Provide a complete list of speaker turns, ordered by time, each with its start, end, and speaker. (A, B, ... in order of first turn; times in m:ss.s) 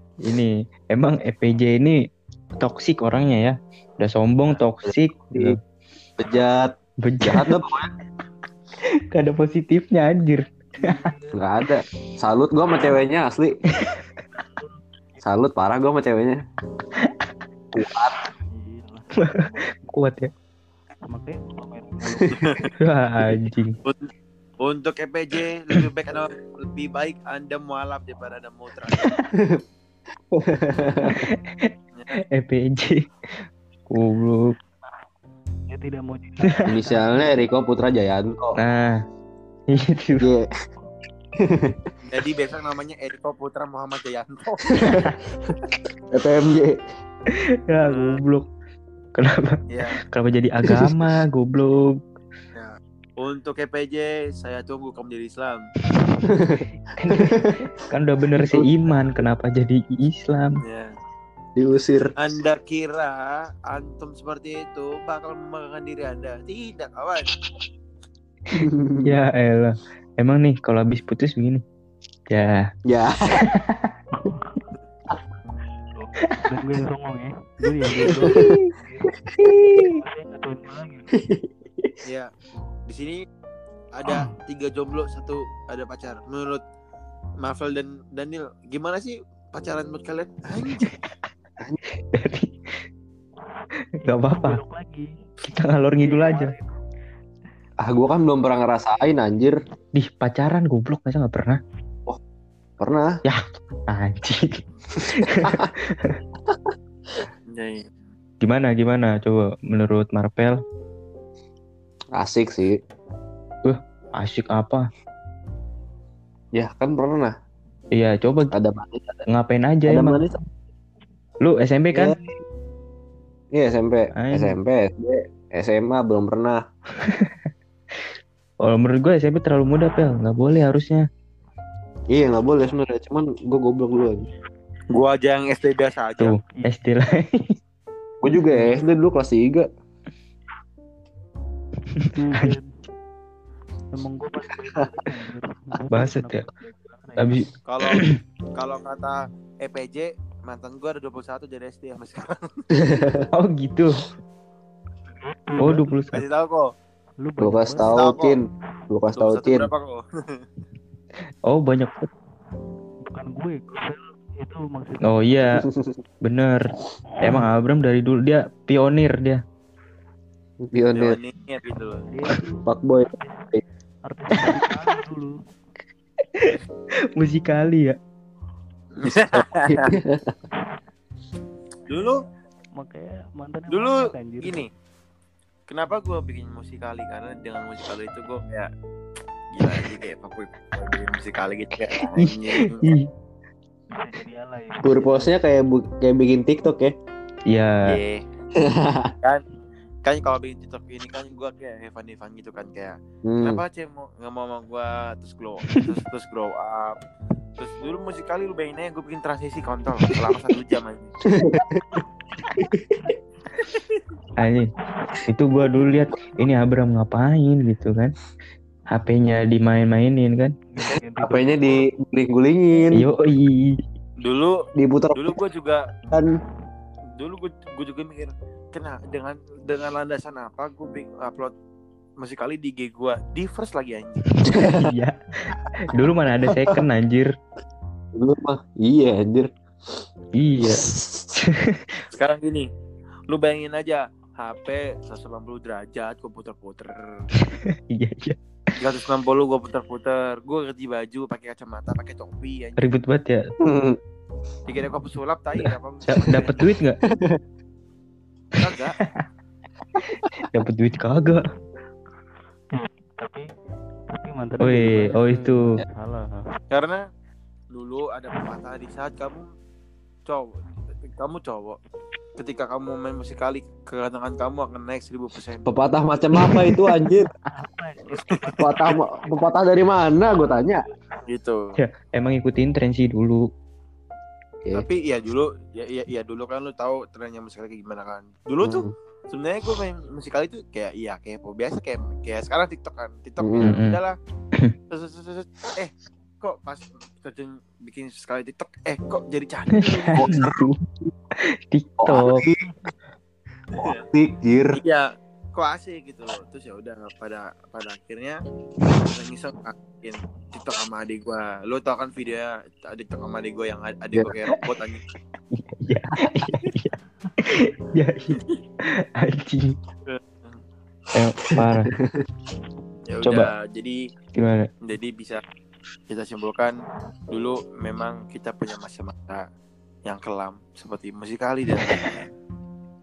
0:00.2-0:02.0 A
0:02.6-0:05.6 A
0:04.8-0:05.6 B
0:06.2-0:07.9 B
0:07.0-0:07.6 A
0:09.1-0:11.0 A
0:10.8-0:11.3 C
0:11.3-0:13.6 B
0:14.4-0:14.7 C
0:15.2-0:16.4 B
0:17.7-0:18.1 B
0:18.4-0:19.6 C
0:19.2-0:20.3 A
0:21.1-0:22.7 C
0:22.0-0:22.5 B
0:22.4-0:22.6 D
0:22.8-0:23.7 A
0:24.6-0:29.1 D
0:29.3-0:29.6 B
0:30.3-0:31.3 B
0:31.1-0:31.7 A
0:31.9-0:32.2 D
0:32.3-0:34.5 A
0:35.7-0:37.4 C
0:36.4-0:36.8 A
0:36.6-0:38.6 B
0:38.6-0:39.0 A
0:39.7-0:40.3 A
0:40.2-0:40.5 B
0:41.4-0:41.8 B
0:42.1-0:44.8 D
0:44.7-0:45.6 B
0:46.1-0:46.8 B
0:47.3-0:48.4 A
0:47.8-0:48.2 D
0:49.2-0:51.8 A
0:49.7-0:50.0 D
0:50.6-0:50.9 B
0:52.6-0:55.6 D
0:56.2-0:57.7 B
0:57.0-1:00.6 A
0:58.4-0:58.7 B
1:00.6-1:00.9 D
1:01.6-1:02.1 B
1:02.2-1:07.3 D
1:08.5-1:09.1 B
1:08.5-1:11.6 A
1:12.3-1:12.6 A
1:12.9-1:13.5 B
1:13.4-1:13.9 A
1:14.1-1:14.7 C
1:16.0-1:19.1 C
1:17.9-1:18.6 B
1:18.1-1:18.7 A
1:19.4-1:19.9 A
1:19.8-1:21.1 C
1:21.1-1:22.0 B
1:22.9-1:23.2 D
1:23.9-1:26.6 D
1:27.4-1:30.9 D
1:32.1-1:32.8 A
1:34.0-1:34.6 A
1:34.0-1:35.1 C
1:35.4-1:36.5 A
1:36.0-1:36.7 C
1:37.8-1:39.6 B
1:40.0-1:41.6 A
1:42.8-1:43.1 B
1:43.2-1:46.2 A
1:45.0-1:45.7 B
1:47.5-1:47.9 D
1:48.4-1:50.6 A
1:52.2-1:52.8 B
1:53.6-1:54.8 A
1:56.5-1:57.3 B
1:57.9-1:58.5 A
1:58.5-1:59.2 B
1:59.3-2:00.2 A
1:59.9-2:00.4 B
2:01.4-2:02.1 A
2:01.9-2:02.3 B
2:03.5-2:06.6 B
2:04.1-2:04.6 A
2:07.0-2:07.3 A
2:08.6-2:11.0 A
2:12.1-2:14.3 B
2:14.9-2:16.3 D
2:16.2-2:17.5 A
2:18.2-2:19.7 B
2:22.0-2:22.5 A
2:22.1-2:22.7 C
2:23.9-2:27.4 C
2:25.9-2:26.4 A
2:27.2-2:28.2 A
2:27.7-2:28.0 D
2:28.6-2:32.6 D
2:32.7-2:33.3 B
2:33.3-2:34.0 A
2:35.2-2:36.0 C
2:35.6-2:36.2 A
2:36.1-2:36.7 D
2:37.2-2:38.1 C
2:37.4-2:39.7 B
2:37.8-2:38.4 D
2:39.1-2:40.4 D
2:41.5-2:42.1 A
2:43.0-2:45.4 C
2:45.0-2:45.6 A
2:45.5-2:46.0 B
2:46.2-2:46.6 A
2:47.2-2:49.4 A
2:50.6-2:51.2 B
2:50.9-2:52.0 D
2:52.0-2:53.5 C
2:52.3-2:53.6 B
2:54.0-2:55.3 C
2:57.2-2:58.0 A
2:59.0-2:59.9 D
2:59.4-3:00.3 B
3:01.9-3:02.2 D
3:02.8-3:04.7 C
3:03.7-3:04.7 D
3:05.7-3:08.7 D
3:09.5-3:12.9 D
3:12.0-3:13.1 A
3:13.9-3:15.4 C
3:14.8-3:16.9 B
3:17.5-3:18.0 A
3:17.8-3:18.2 D
3:18.6-3:19.1 B
3:20.0-3:27.0 D
3:23.2-3:23.6 B
3:27.6-3:31.1 D
3:31.2-3:33.1 B
3:34.4-3:34.7 A
3:35.3-3:38.1 A
3:38.9-3:40.5 A
3:40.7-3:41.8 C
3:41.2-3:43.0 B
3:42.9-3:43.8 A
3:44.2-3:44.6 D
3:44.8-3:45.3 B
3:45.1-3:45.8 D
3:46.1-3:46.4 B
3:47.2-3:51.5 D
3:52.2-3:54.3 D
3:54.4-3:54.9 B
3:54.4-3:57.3 A
3:56.5-3:56.8 B
3:58.2-3:59.5 B
4:00.4-4:02.0 A
4:00.6-4:01.3 B
4:02.1-4:02.7 D
4:03.3-4:07.2 D
4:07.4-4:08.4 A
4:08.8-4:12.9 D
4:12.8-4:13.4 A
4:13.6-4:14.0 B
4:14.7-4:16.6 D
4:16.1-4:17.0 A
4:17.1-4:17.4 B
4:18.5-4:19.0 D
4:20.4-4:21.4 A
4:22.7-4:23.5 C
4:24.1-4:26.5 C
4:24.6-4:25.8 A
4:26.7-4:27.0 D
4:27.7-4:29.5 D
4:30.2-4:31.8 D
4:32.4-4:35.6 D
4:35.6-4:37.3 B
4:36.4-4:36.9 A
4:37.5-4:39.4 C
4:38.6-4:40.8 B
4:41.3-4:41.8 D
4:41.8-4:43.4 A
4:44.7-4:54.2 D
4:48.6-4:48.9 B
4:53.4-4:53.8 B
4:53.6-4:54.0 A
4:54.9-5:00.5 D
4:59.8-5:00.8 A
5:00.2-5:00.6 B
5:01.4-5:02.4 A
5:02.0-5:02.7 B
5:03.8-5:04.0 D
5:03.8-5:04.8 B
5:04.8-5:15.0 D
5:15.5-5:19.8 A
5:20.1-5:20.6 D
5:21.1-5:21.9 A
5:21.5-5:22.2 B
5:23.1-5:24.0 D
5:23.2-5:23.5 A
5:24.4-5:24.7 A
5:24.8-5:25.4 D
5:26.1-5:26.8 D
5:27.3-5:29.4 D
5:30.0-5:32.3 D